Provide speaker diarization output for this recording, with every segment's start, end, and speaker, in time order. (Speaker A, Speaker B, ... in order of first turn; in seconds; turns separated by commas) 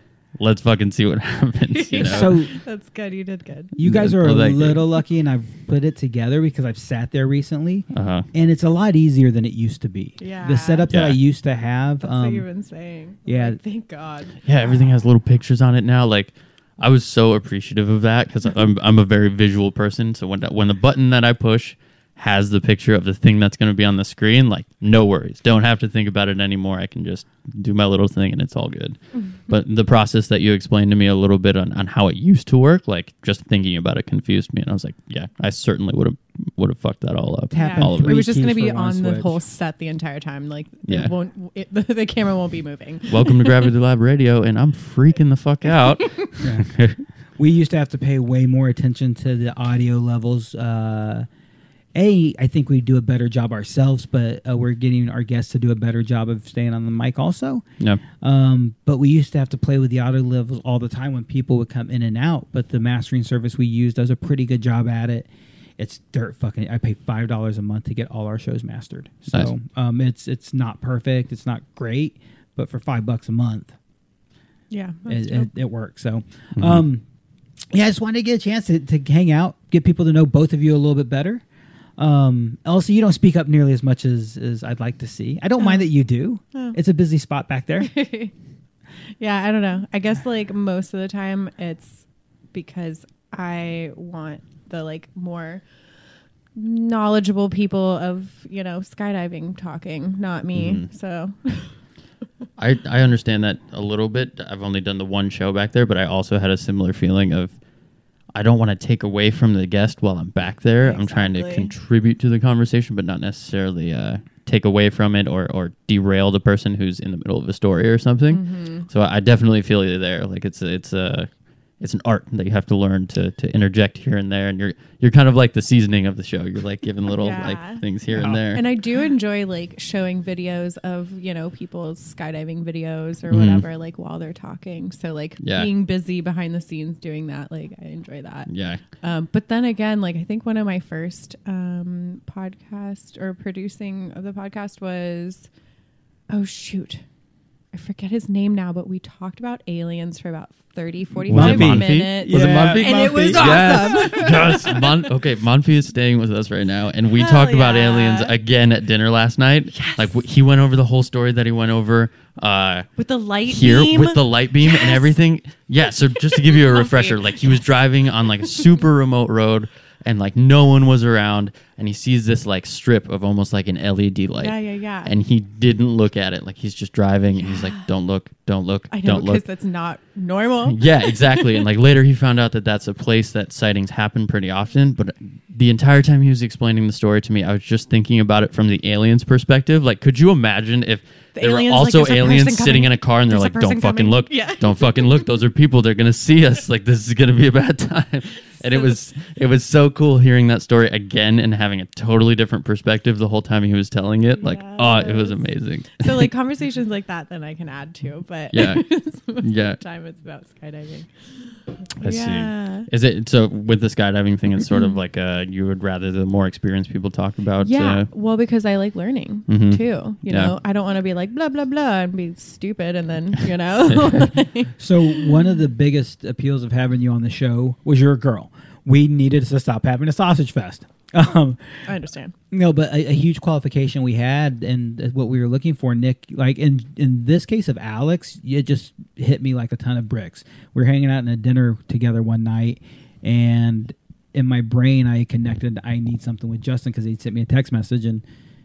Speaker A: 0.4-2.3, Speaker B: 1.7-3.8, Speaker C: 1.9-2.5, Speaker C: 3.8-12.4, Speaker A: 3.8-4.8, Speaker A: 7.9-8.2, Speaker B: 10.2-10.9, Speaker A: 10.9-11.2, Speaker B: 12.0-14.9, Speaker C: 13.2-13.6, Speaker A: 14.4-38.2, Speaker C: 37.5-39.4, Speaker B: 37.5-43.5, Speaker A: 43.1-47.0, Speaker C: 46.4-46.7, Speaker C: 47.4-51.3, Speaker C: 51.9-57.6, Speaker C: 58.2-73.7, Speaker B: 74.7-75.5, Speaker C: 75.1-77.0, Speaker A: 76.5-76.8, Speaker C: 77.7-81.4, Speaker C: 82.0-87.9, Speaker B: 85.6-85.9, Speaker B: 87.8-88.3, Speaker B: 89.2-95.6, Speaker B: 96.5-101.7, Speaker A: 100.5-100.8, Speaker A: 102.6-107.5, Speaker A: 108.3-128.6, Speaker B: 110.8-111.7, Speaker B: 118.3-118.9, Speaker B: 127.1-127.8, Speaker C: 128.1-128.4, Speaker B: 128.5-138.5, Speaker A: 133.3-133.6, Speaker A: 135.4-135.7, Speaker A: 138.5-138.8, Speaker B: 139.0-145.5, Speaker B: 146.3-147.0, Speaker B: 147.7-155.0, Speaker A: 151.3-162.9, Speaker C: 151.3-154.3, Speaker B: 157.1-158.3, Speaker B: 159.7-160.2, Speaker B: 163.0-165.2, Speaker A: 163.4-179.4, Speaker B: 166.2-167.6, Speaker B: 174.4-175.1, Speaker B: 177.4-177.8, Speaker B: 178.9-181.6, Speaker A: 180.7-206.3, Speaker B: 191.3-195.3, Speaker B: 198.6-199.0, Speaker B: 204.4-211.1, Speaker A: 208.5-209.8, Speaker A: 212.0-218.1, Speaker B: 212.0-212.9, Speaker B: 217.6-225.4, Speaker A: 219.5-220.5, Speaker C: 224.8-231.8, Speaker B: 231.8-232.3, Speaker C: 232.5-248.2